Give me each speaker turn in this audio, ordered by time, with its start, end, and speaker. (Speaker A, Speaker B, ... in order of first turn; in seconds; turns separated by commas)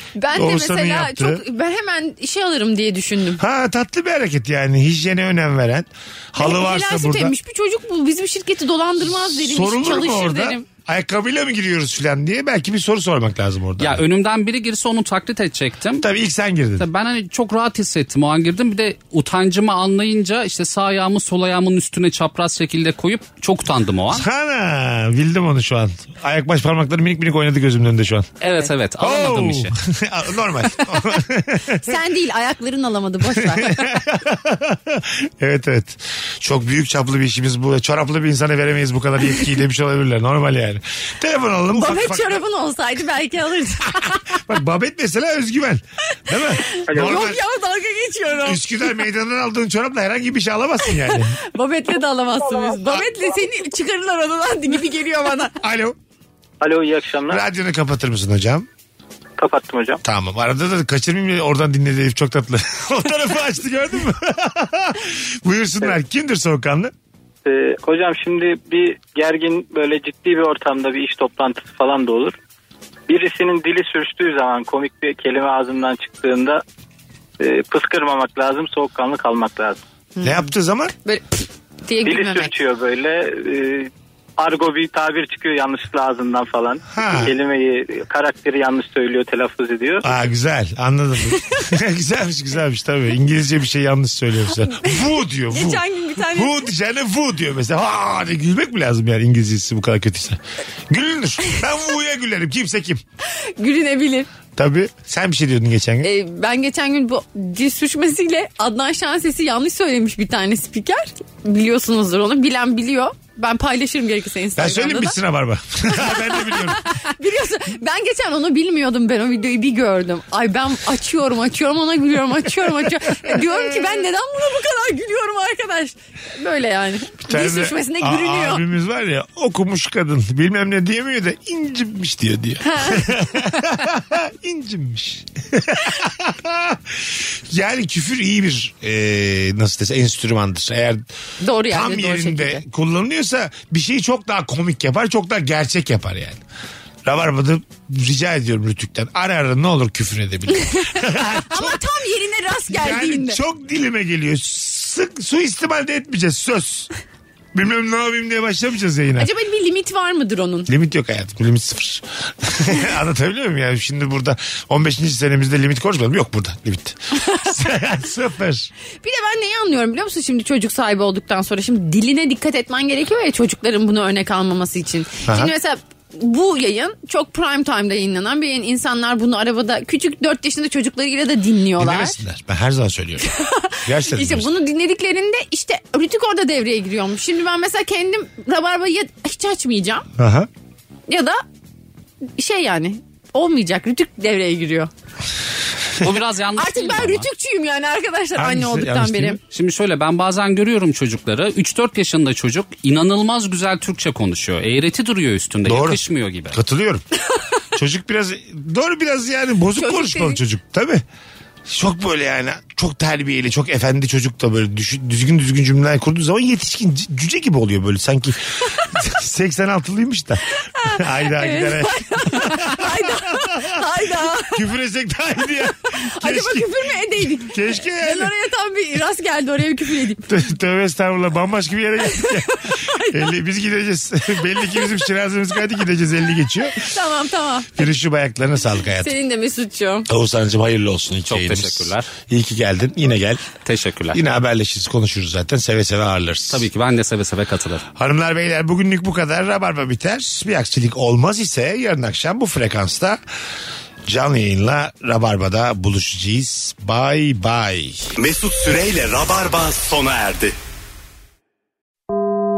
Speaker A: 0.1-3.4, Speaker B: 0.3-1.4, Speaker B: 3.4-7.3, Speaker A: 6.4-10.7, Speaker B: 9.1-14.0, Speaker C: 13.8-16.1, Speaker B: 16.0-16.9, Speaker C: 16.8-24.2, Speaker B: 24.1-28.3, Speaker C: 28.4-29.7, Speaker B: 29.0-32.0, Speaker A: 31.8-34.0, Speaker B: 33.3-42.4, Speaker A: 41.7-44.4, Speaker B: 44.3-47.4, Speaker A: 46.4-48.7, Speaker B: 48.4-51.4, Speaker A: 50.8-55.5, Speaker B: 55.6-56.0, Speaker D: 56.6-57.4, Speaker B: 57.3-58.7, Speaker D: 59.4-60.0, Speaker B: 60.0-66.9, Speaker D: 67.5-72.3, Speaker D: 73.1-76.6, Speaker D: 77.4-79.8, Speaker A: 80.2-80.4, Speaker B: 80.2-80.9, Speaker A: 81.0-82.5, Speaker D: 82.0-90.1, Speaker B: 86.9-87.3, Speaker B: 90.0-103.0, Speaker A: 94.7-96.7, Speaker A: 103.2-104.3, Speaker B: 104.5-106.1, Speaker A: 106.0-115.2, Speaker B: 114.5-116.8, Speaker A: 115.9-128.6, Speaker B: 123.2-123.6, Speaker B: 127.2-141.1, Speaker A: 132.7-133.1, Speaker A: 141.4-142.6, Speaker B: 141.7-146.4, Speaker B: 147.0-151.8, Speaker A: 150.5-153.4, Speaker B: 152.7-156.9, Speaker B: 157.5-159.3, Speaker A: 159.2-160.7, Speaker B: 160.7-168.7, Speaker A: 169.0-182.2, Speaker B: 175.2-175.5, Speaker B: 181.8-184.5, Speaker A: 183.2-190.1, Speaker B: 190.2-190.5, Speaker A: 191.1-191.4, Speaker A: 192.4-194.9, Speaker C: 196.0-197.3, Speaker A: 196.6-199.4, Speaker B: 198.3-199.4, Speaker C: 199.5-206.6, Speaker B: 205.6-206.0, Speaker B: 206.5-207.0, Speaker B: 207.7-211.0, Speaker A: 209.8-210.4, Speaker B: 211.7-223.8, Speaker A: 220.8-224.7, Speaker B: 224.5-228.3, Speaker A: 225.8-230.4, Speaker B: 230.3-236.9, Speaker A: 232.0-233.3, Speaker A: 236.6-237.9, Speaker B: 237.7-239.1, Speaker A: 238.9-240.1, Speaker B: 240.1-243.4, Speaker C: 241.3-242.1, Speaker C: 243.6-244.2, Speaker B: 244.1-246.7, Speaker C: 246.5-247.8, Speaker B: 247.9-253.2, Speaker B: 254.1-258.1, Speaker E: 258.1-260.6